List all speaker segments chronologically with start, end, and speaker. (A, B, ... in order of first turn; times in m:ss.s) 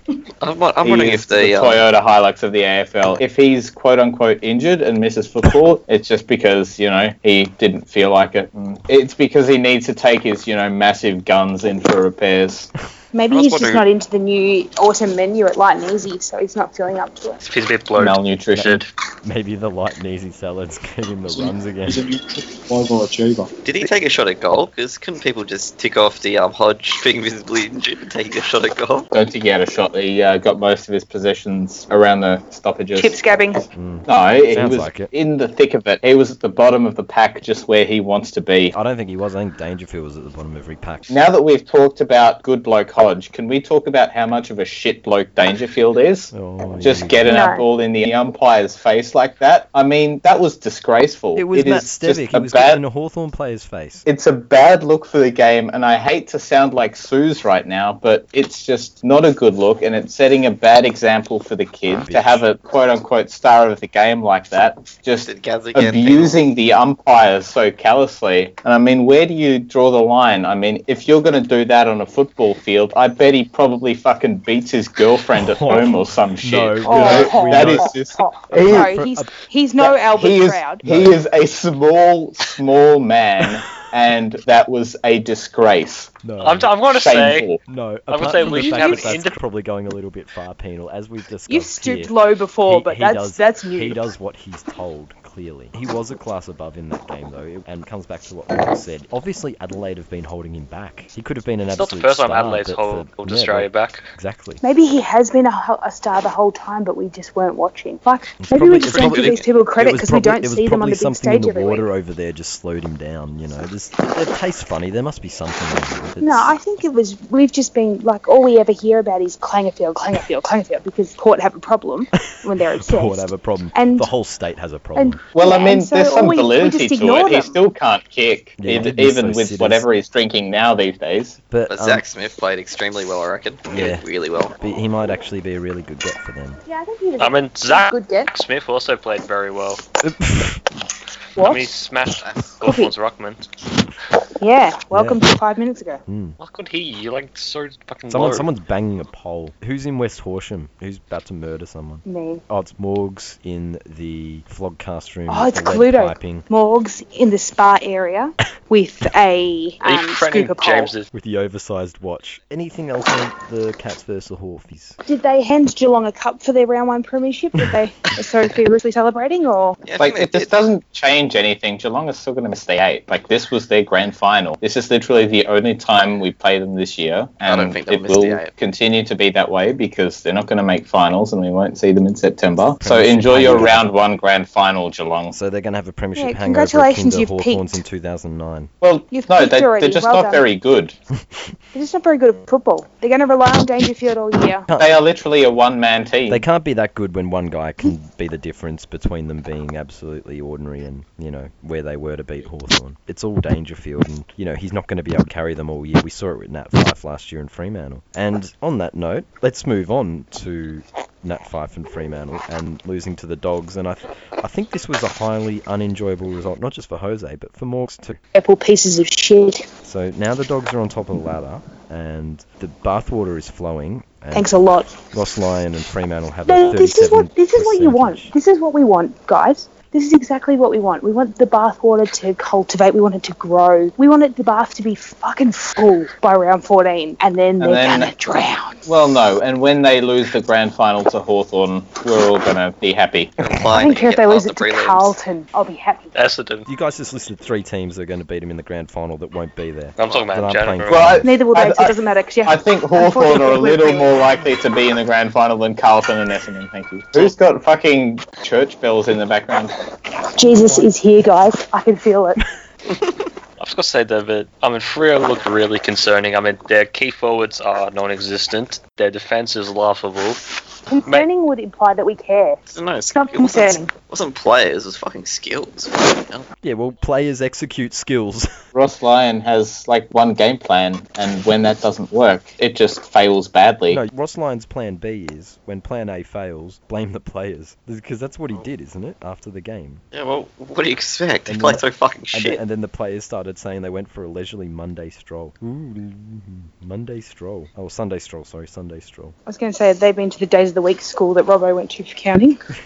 0:00.4-0:01.8 A
0:00.8-0:12.7 B
0:13.1-0:17.4 C
0:13.3-0:13.9 A
0:17.4-0:18.8 D
0:18.0-0:18.8 B
0:18.5-0:22.0 E
0:21.3-0:23.5 F
0:23.6-0:29.1 A
0:29.1-0:33.2 B
0:33.0-0:33.6 C
0:33.7-0:35.1 E
0:34.1-0:38.7 B
0:38.7-0:41.2 E
0:41.1-0:52.8 B
0:46.3-0:47.3 E
0:47.2-0:47.6 C
0:51.3-0:54.0 E
0:54.0-1:18.9 B
1:01.9-1:02.4 E
1:05.2-1:06.4 A
1:15.4-1:17.9 E
1:16.8-1:20.8 C
1:18.5-1:19.3 E
1:19.8-1:26.1 B
1:20.8-1:21.2 E
1:26.2-1:26.7 E
1:26.4-1:27.5 D
1:26.9-1:27.6 B
1:27.6-1:32.1 E
1:28.1-1:29.4 D
1:28.4-1:29.1 C
1:31.5-1:34.1 C
1:32.7-1:44.6 E
1:41.7-1:44.0 D
1:44.6-1:51.8 C
1:48.4-1:56.6 E
1:48.8-1:49.5 A
1:56.2-2:04.1 C
2:02.8-2:05.2 E
2:05.0-2:07.6 C
2:05.3-2:11.4 B
2:08.6-2:09.8 E
2:11.5-2:12.0 E
2:11.7-2:14.5 A
2:13.7-2:14.0 E
2:14.6-2:16.6 E
2:16.7-2:18.3 C
2:17.2-2:19.8 D
2:20.0-2:20.6 E
2:21.4-2:21.7 C
2:21.4-2:23.4 D
2:22.2-2:22.6 A
2:22.6-2:22.9 C
2:24.4-2:26.0 C
2:24.9-2:25.2 E
2:26.1-2:26.4 E
2:26.4-2:28.5 D
2:28.1-2:36.4 E
2:32.0-2:32.4 C
2:35.3-2:40.9 C
2:39.8-2:41.1 D
2:41.1-2:45.0 E
2:45.0-2:49.8 C
2:49.8-2:50.5 A
2:50.0-3:05.4 B
2:57.4-2:58.5 A
3:02.8-3:03.9 E
3:05.3-3:08.7 E
3:06.2-3:07.8 C
3:08.8-3:11.0 B
3:09.1-3:10.4 C
3:11.7-3:14.7 C
3:14.7-3:15.0 E
3:14.8-3:16.4 B
3:16.3-3:38.2 E
3:38.3-3:39.6 C
3:39.8-3:48.3 E
3:44.3-3:44.9 C
3:46.4-3:58.8 C
3:57.6-3:58.1 B
3:58.8-4:03.4 B
4:03.4-4:05.2 A
4:03.7-4:06.1 C
4:06.1-4:06.7 D
4:06.7-4:11.3 E
4:10.0-4:11.2 D
4:10.9-4:19.7 B
4:11.2-4:14.2 C
4:20.3-4:22.4 C
4:20.5-4:20.9 F
4:22.9-4:23.2 A
4:23.6-4:30.4 D
4:30.9-4:33.9 C
4:32.7-4:36.5 A
4:36.6-4:38.5 E
4:38.7-4:44.0 B
4:43.9-4:50.0 E
4:50.1-4:52.6 A
4:51.5-4:59.4 E
4:59.5-5:02.6 C